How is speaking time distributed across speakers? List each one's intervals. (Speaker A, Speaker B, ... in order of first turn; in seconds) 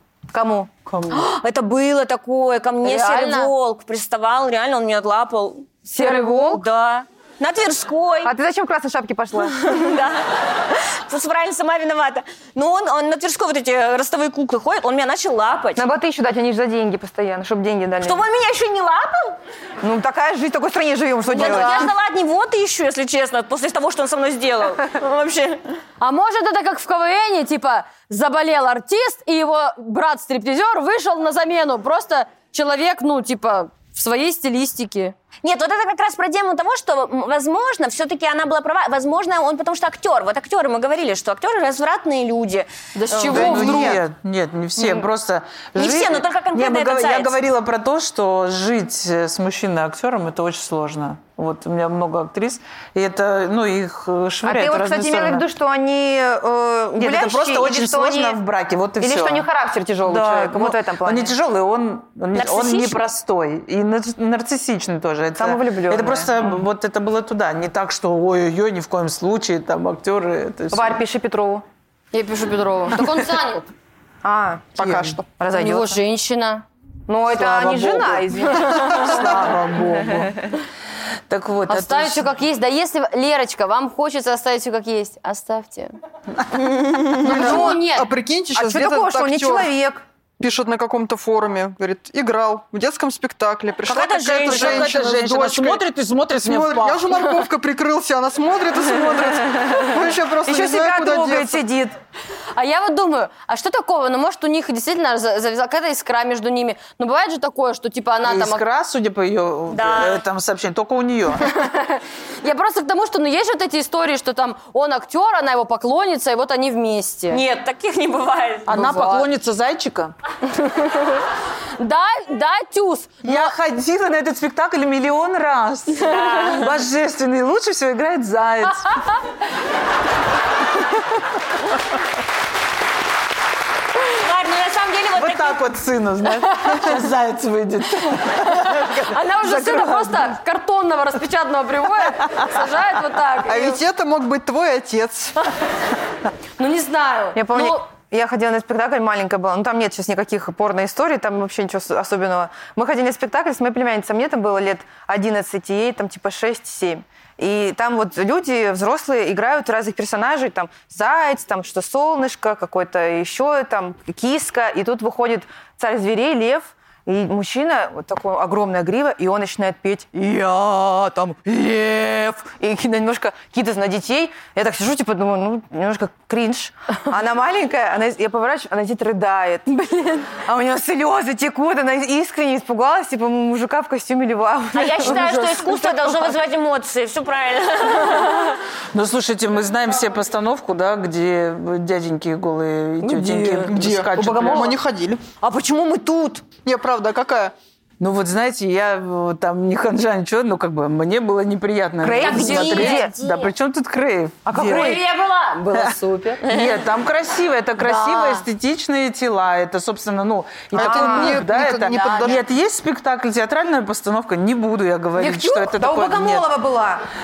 Speaker A: 0.3-0.9, 5.9-6.6, 8.2-9.7, 15.8-18.2, 19.8-21.9, 54.4-58.4, 59.0-61.4, 65.4-66.5, 70.7-71.7, 74.2-76.0, 77.1-79.2, 87.2-87.8, 88.5-90.0, 100.4-102.0, 147.3-185.7, 194.2-194.8, 202.0-203.1, 204.4-205.0, 210.8-211.4, 215.2-217.1
Speaker B: 1.1-8.3, 9.6-15.9, 18.0-19.4, 21.3-25.6, 35.4-42.7, 45.8-47.4, 62.3-63.1, 93.9-94.9, 109.7-110.2, 117.3-118.7, 126.0-126.7, 134.1-135.6, 184.7-188.6, 195.4-196.4, 202.2-203.5, 206.4-206.8
Speaker C: 2.8-3.5, 6.0-6.3, 21.3-21.9, 26.0-35.1, 43.0-44.0, 72.1-73.7, 75.5-76.7, 81.7-85.9, 87.1-88.1, 102.5-108.6, 111.5-117.4, 118.7-119.3, 120.6-121.2, 121.8-123.5, 136.4-137.0, 138.5-143.8, 146.6-147.8, 179.9-180.2, 193.3-193.7, 204.6-206.4, 207.8-208.4, 212.0-212.3
Speaker D: 43.1-44.0, 78.6-79.5, 87.1-89.7, 90.4-95.8, 96.4-101.6, 143.4-145.4, 193.6-195.2, 196.7-197.5, 210.7-212.5
Speaker E: 43.2-55.5, 57.0-59.5, 60.1-71.0, 74.8-75.2, 77.3-80.5, 81.3-82.3, 93.9-97.2, 108.2-111.6, 118.7-120.1, 123.2-129.0, 135.2-140.3, 188.9-194.8, 198.0-205.0, 205.7-216.5